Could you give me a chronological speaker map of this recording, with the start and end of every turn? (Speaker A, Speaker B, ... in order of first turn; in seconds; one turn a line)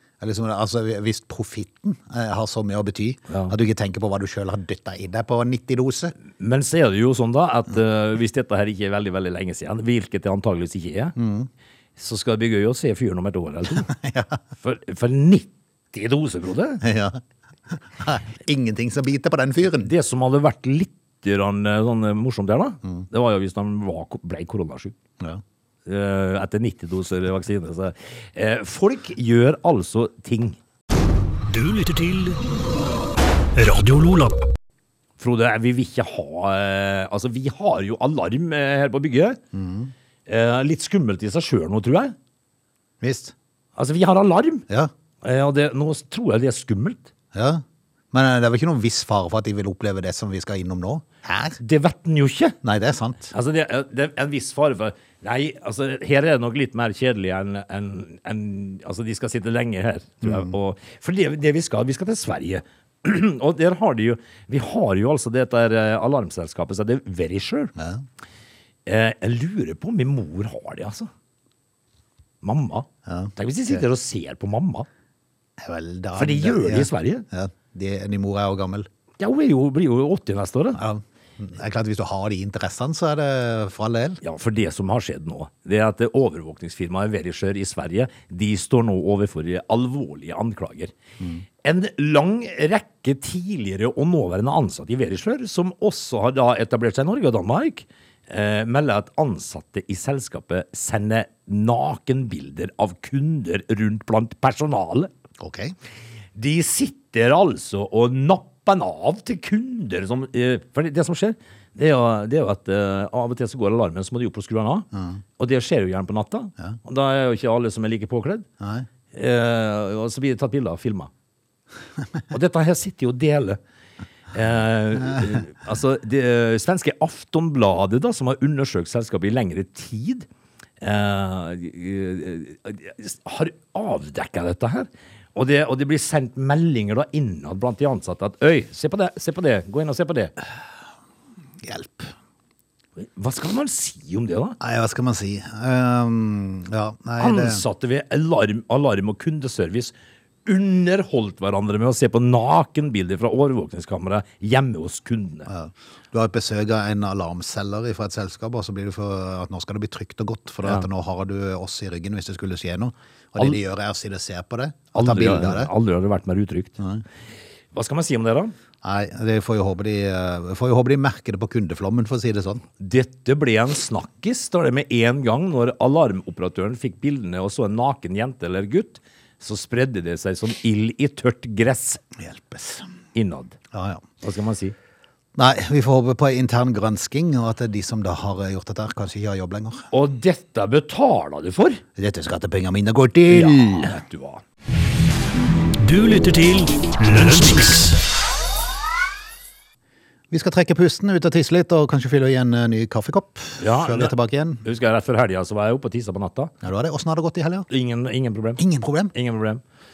Speaker A: 0.2-6.1
Speaker B: 3.3-3.5
Speaker B: 6.3-11.1
Speaker A: 11.2-11.5
Speaker B: 12.0-13.9
Speaker A: 13.8-14.4
Speaker B: 14.6-16.8
Speaker A: 16.8-17.2
Speaker A: 17.7-19.9
Speaker B: 19.8-24.9
Speaker B: 25.9-30.6
Speaker C: 31.5-32.4
Speaker C: 33.5-34.4
Speaker B: 35.2-39.4
Speaker A: 39.5-39.9
Speaker B: 40.2-42.1
Speaker A: 43.0-43.3
Speaker B: 43.8-44.6
Speaker B: 45.2-47.1
Speaker A: 47.3-51.6
Speaker B: 51.6-52.5
Speaker A: 52.6-53.3
Speaker B: 53.3-67.7
Speaker A: 60.2-60.5
Speaker A: 67.8-68.0
Speaker B: 68.8-71.1
Speaker B: 72.4-74.9
Speaker A: 73.1-73.8
Speaker A: 75.6-78.9
Speaker B: 76.1-77.2
Speaker B: 79.2-80.8
Speaker A: 80.7-84.2
Speaker B: 84.2-90.9
Speaker B: 91.6-105.1
Speaker A: 105.4-105.7
Speaker B: 106.3-118.5
Speaker A: 114.9-115.2
Speaker A: 118.6-118.9
Speaker B: 119.1-121.1
Speaker B: 122.3-123.6
Speaker B: 124.3-130.3
Speaker B: 130.8-140.3
Speaker A: 141.6-142.1
Speaker B: 143.0-144.6
Speaker A: 144.6-147.6
Speaker B: 147.2-149.9
Speaker B: 150.4-155.5
Speaker A: 155.5-165.7
Speaker B: 164.9-166.8
Speaker B: 167.7-168.5
Speaker A: 168.8-172.6
Speaker B: 172.8-182.0
Speaker A: 182.2-182.9
Speaker B: 183.1-183.6
Speaker A: 183.7-184.0
Speaker B: 184.2-184.7
Speaker A: 185.3-189.9
Speaker B: 189.9-191.8
Speaker A: 192.0-194.0
Speaker B: 193.3-194.4
Speaker C: 195.8-198.0
Speaker A: 200.3-204.6
Speaker B: 203.6-206.5
Speaker A: 206.6-207.7
Speaker B: 207.7-208.6
Speaker A: 208.6-209.1
Speaker B: 209.1-209.6